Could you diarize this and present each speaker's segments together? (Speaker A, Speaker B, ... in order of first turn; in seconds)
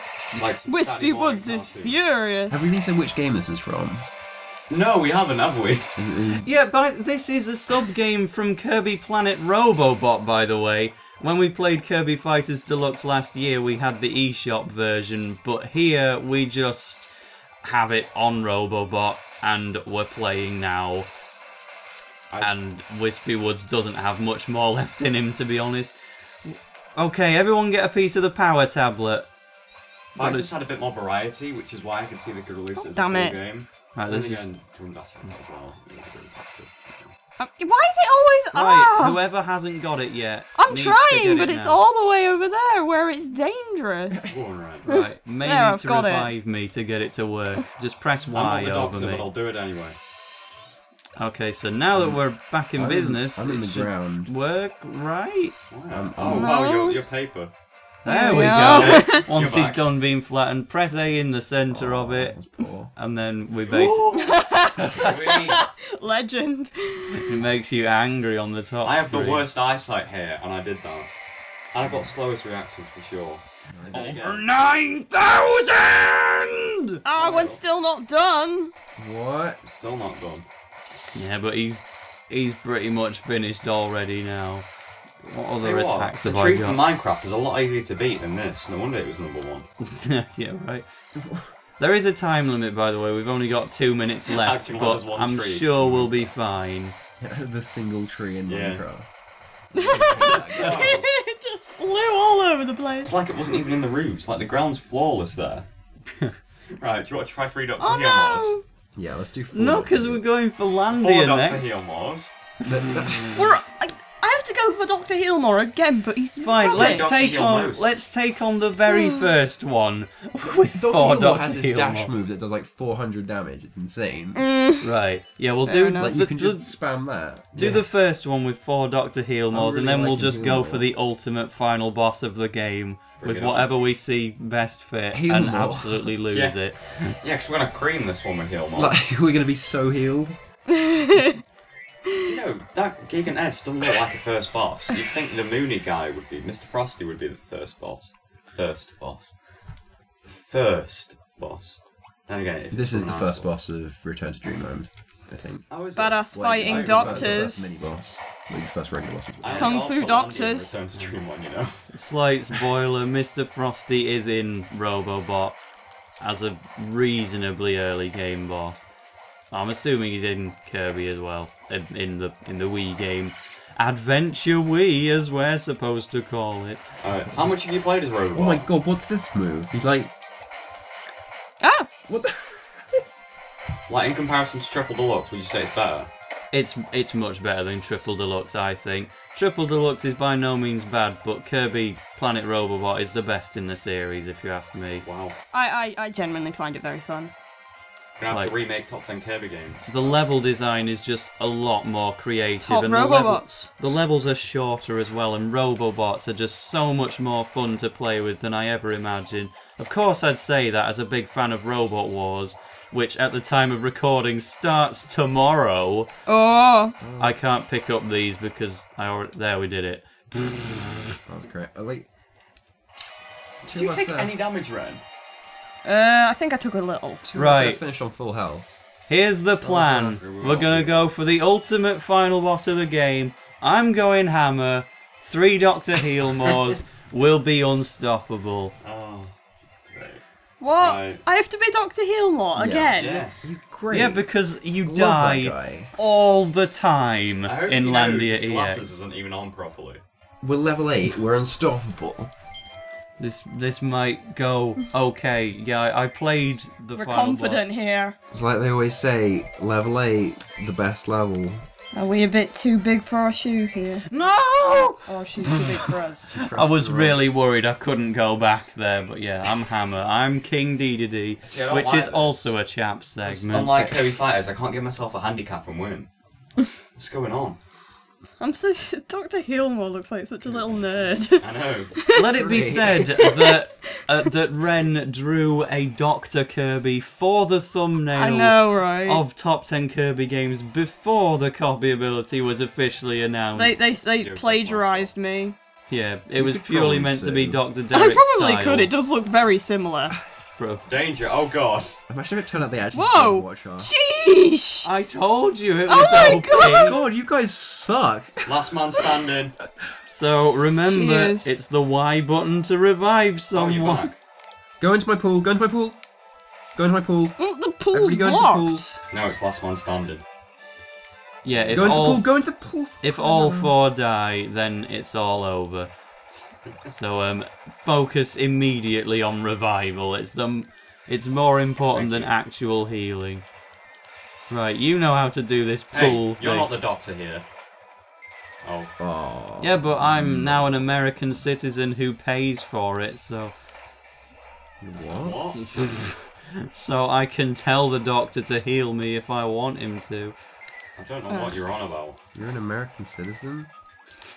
Speaker A: 0.3-2.0, 4.7-6.0, 30.1-37.1, 44.3-44.9, 48.3-50.0, 55.7-57.5, 58.6-59.9, 65.0-65.7, 68.8-71.1, 71.7-74.4, 77.1-77.6, 79.6-80.5, 85.6-89.7, 94.3-96.3, 98.5-98.8, 100.5-101.1, 103.0-105.7, 106.8-108.6, 110.9-112.3, 116.6-117.9, 133.2-133.7, 136.2-139.0, 142.2-149.4, 150.2-153.5, 155.7-157.5, 159.4-161.9, 177.0-178.7, 183.9-186.1, 195.0-195.3, 198.2-200.2, 223.6-225.0, 229.6-231.1, 238.8-239.3, 239.8-240.2, 240.8-241.2, 242.9-243.6, 247.4-250.0, 271.4-272.5, 273.2-276.1, 276.9-277.6, 280.5-281.9, 294.2-295.1, 300.9-302.0, 308.4-309.6, 313.5-314.1, 319.1-320.2, 321.5-322.0, 331.9-332.3, 335.9-337.4, 338.6-338.9, 345.1-345.8, 351.0-352.2
Speaker B: 0.6-2.7, 32.8-33.4, 37.4-39.2, 40.5-44.3, 44.9-46.3, 56.3-57.0, 58.0-59.2, 63.7-67.3, 77.0-78.7, 99.7-103.2, 107.8-108.6, 113.3-117.4, 118.9-119.3, 124.3-124.9, 125.7-126.1, 140.8-141.4, 155.9-157.7, 159.5-160.7, 181.6-181.9, 195.5-197.3, 202.6-203.7, 216.2-217.0, 225.8-227.5, 240.6-243.3, 256.9-258.1, 261.9-264.1, 265.1-266.3, 278.4-282.3, 282.9-283.6, 288.1-289.2, 293.5-295.6, 297.9-300.1, 302.9-304.9, 305.9-307.0, 310.8-311.5, 317.4-319.0, 351.3-351.6
Speaker C: 2.5-4.1, 6.0-6.5, 51.9-52.2, 52.7-54.3, 55.9-56.5, 61.7-62.9, 73.7-74.2, 79.0-79.6, 91.2-91.5, 97.2-99.1, 99.7-100.9, 109.0-110.2, 112.6-113.4, 120.7-124.4, 126.0-127.8, 129.5-130.9, 135.1-136.1, 138.8-140.3, 152.7-155.8, 156.3-159.8, 178.3-180.1, 182.1-183.0, 217.0-217.4, 221.2-222.1, 223.7-224.3, 227.3-228.7, 242.5-244.3, 244.8-245.9, 250.4-252.3, 258.3-261.6, 266.2-267.2, 273.5-274.0, 282.3-283.2, 296.3-297.6, 302.1-303.9, 306.6-309.2, 314.8-316.0, 316.7-318.9, 321.7-323.7, 339.0-340.8, 344.8-346.1, 352.3-353.7
Speaker D: 6.4-17.1, 17.6-21.1, 22.4-29.3, 30.1-30.5, 34.0-34.5, 38.5-41.8, 44.9-49.3, 51.2-55.5, 58.0-62.4, 62.9-64.4, 67.1-69.5, 73.9-77.0, 81.1-84.7, 85.2-86.8, 89.8-90.8, 91.8-96.9, 109.5-111.7, 116.4-122.1, 124.8-126.7, 127.5-137.2, 161.9-165.6, 166.2-168.9, 169.5-176.8, 186.5-195.0, 199.9-216.1, 217.2-221.2, 227.3-227.8, 229.1-238.7, 243.9-248.8, 253.2-257.7, 264.1-265.5, 266.4-273.7, 282.1-293.8, 295.9-298.9, 300.6-300.8, 304.8-307.0, 310.1-314.1, 321.4-322.3, 323.0-325.9, 326.9-333.4, 334.5-336.7, 339.6-343.5, 345.8-346.1, 346.7-350.4